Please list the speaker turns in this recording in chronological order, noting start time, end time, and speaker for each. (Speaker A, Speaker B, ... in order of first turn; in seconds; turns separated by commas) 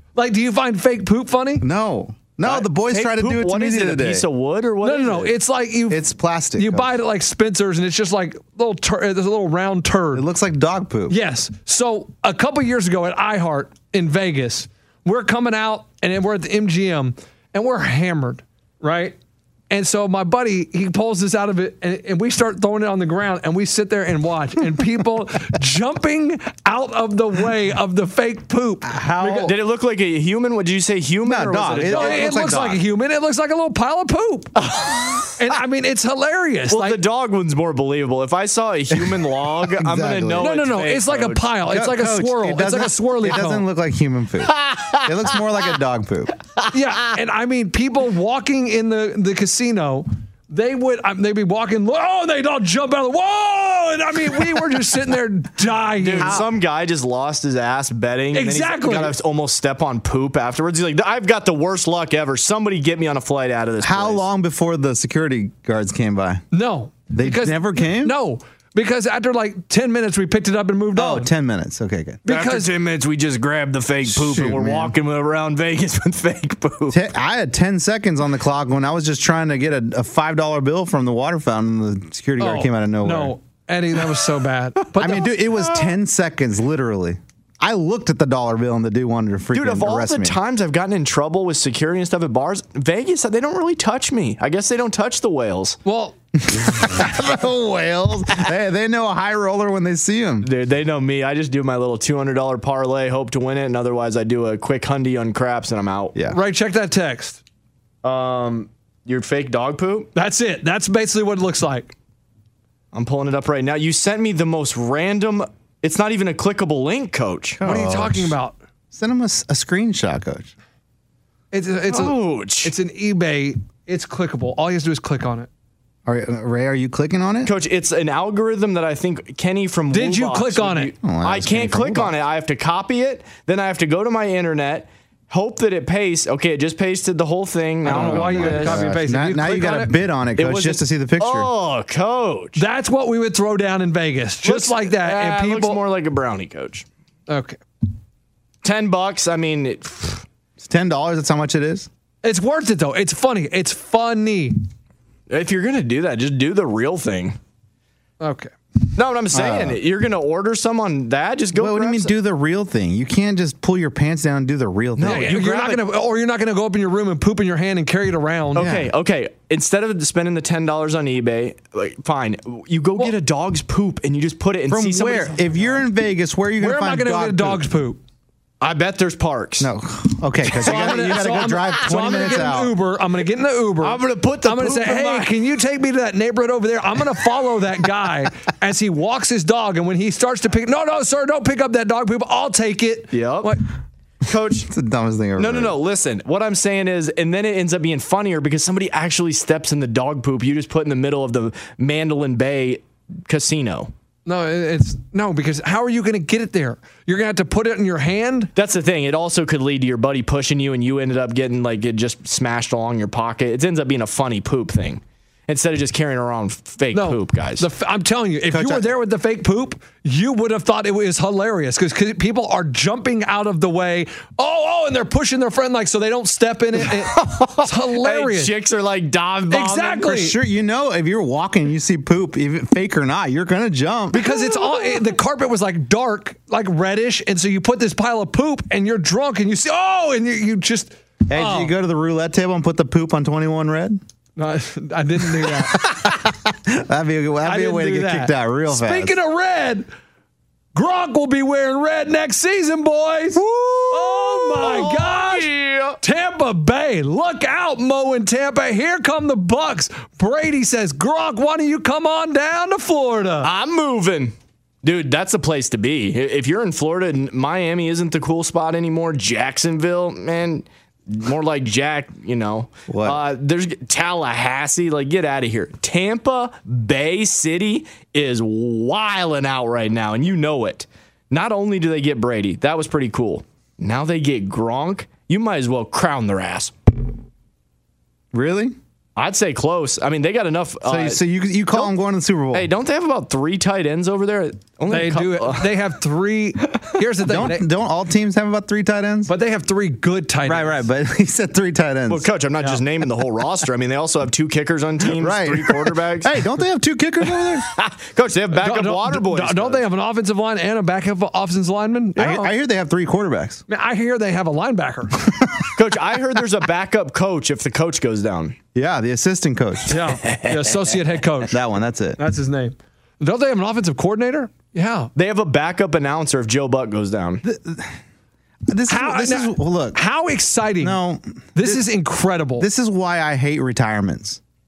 Speaker A: 0.1-1.6, Speaker B: 1.6-4.2, Speaker C: 2.4-5.3, Speaker A: 4.8-6.0, Speaker B: 5.9-6.9, Speaker A: 6.5-10.2, Speaker B: 10.1-11.2, Speaker A: 11.1-19.1, Speaker A: 19.7-28.9, Speaker B: 28.8-29.5, Speaker C: 29.2-32.4, Speaker B: 31.2-32.8, Speaker A: 31.8-34.5, Speaker C: 34.6-35.3, Speaker A: 35.4-37.0, Speaker C: 36.7-41.5, Speaker B: 39.7-40.6, Speaker A: 40.4-43.6, Speaker B: 41.7-46.3, Speaker C: 44.5-45.4, Speaker A: 46.7-56.4, Speaker C: 56.0-64.2, Speaker B: 56.2-56.5, Speaker A: 58.3-59.1, Speaker B: 63.8-66.4, Speaker A: 66.5-71.3, Speaker B: 67.1-68.2, Speaker B: 70.9-72.2, Speaker A: 72.2-72.7, Speaker C: 72.3-77.0, Speaker B: 74.0-74.9, Speaker B: 76.9-83.3, Speaker A: 82.4-85.3, Speaker B: 85.0-90.4, Speaker C: 85.6-85.9, Speaker C: 89.5-95.8, Speaker A: 95.8-96.1, Speaker B: 96.4-100.5, Speaker C: 100.4-106.1, Speaker A: 106.3-107.4, Speaker C: 108.0-110.1, Speaker A: 110.1-111.9, Speaker C: 112.9-117.6, Speaker B: 117.6-118.3, Speaker A: 117.6-118.5, Speaker B: 118.9-120.5, Speaker A: 121.5-125.5, Speaker C: 121.9-122.7, Speaker B: 126.0-127.5, Speaker C: 127.4-138.8, Speaker A: 129.9-130.9, Speaker B: 131.0-132.1, Speaker B: 137.8-141.5, Speaker A: 137.9-139.9, Speaker C: 140.4-142.6, Speaker A: 142.6-145.8, Speaker C: 144.4-146.8, Speaker A: 147.3-147.6, Speaker C: 148.6-150.2, Speaker B: 150.6-151.9, Speaker A: 152.2-154.6, Speaker C: 155.3-157.4, Speaker A: 158.2-158.5, Speaker C: 158.9-162.1, Speaker B: 159.3-159.8, Speaker B: 161.5-165.4, Speaker C: 165.0-165.8, Speaker A: 165.0-168.7, Speaker C: 168.5-175.8, Speaker B: 168.6-168.9, Speaker B: 174.7-177.6, Speaker A: 176.6-178.0, Speaker C: 178.6-179.7, Speaker B: 179.6-182.8, Speaker C: 180.5-182.1, Speaker A: 180.6-193.6, Speaker C: 183.8-185.3, Speaker C: 193.1-193.5, Speaker C: 194.2-194.7, Speaker B: 194.6-195.8, Speaker C: 195.3-203.9, Speaker A: 204.2-208.5, Speaker C: 208.5-217.7, Speaker A: 216.9-228.5, Speaker B: 218.5-218.9, Speaker C: 227.2-230.1, Speaker A: 229.5-230.3, Speaker B: 230.0-234.3, Speaker A: 234.1-241.7, Speaker B: 241.3-244.0, Speaker A: 244.4-245.8, Speaker B: 245.4-249.2, Speaker A: 247.4-249.9, Speaker A: 250.7-255.5, Speaker B: 253.3-254.0, Speaker C: 254.1-256.0, Speaker A: 256.0-263.5, Speaker C: 263.4-286.7, Speaker B: 272.9-273.2, Speaker B: 288.3-288.8, Speaker C: 289.1-291.2, Speaker B: 290.8-292.7, Speaker C: 292.5-295.8, Speaker A: 294.9-297.7, Speaker B: 297.2-299.3, Speaker A: 299.3-300.9, Speaker B: 300.4-302.3, Speaker C: 302.1-306.5, Speaker B: 305.0-307.6, Speaker C: 307.3-309.8, Speaker A: 308.5-312.5, Speaker B: 312.2-313.6, Speaker A: 313.7-315.2, Speaker B: 315.2-315.7, Speaker C: 315.7-318.6, Speaker B: 318.7-320.0, Speaker A: 319.9-321.5, Speaker B: 321.5-322.2, Speaker A: 322.2-325.1, Speaker C: 325.1-327.4, Speaker B: 327.4-328.0, Speaker B: 328.7-330.0, Speaker A: 328.9-331.0, Speaker B: 330.8-331.8, Speaker A: 331.5-332.7, Speaker B: 332.6-334.4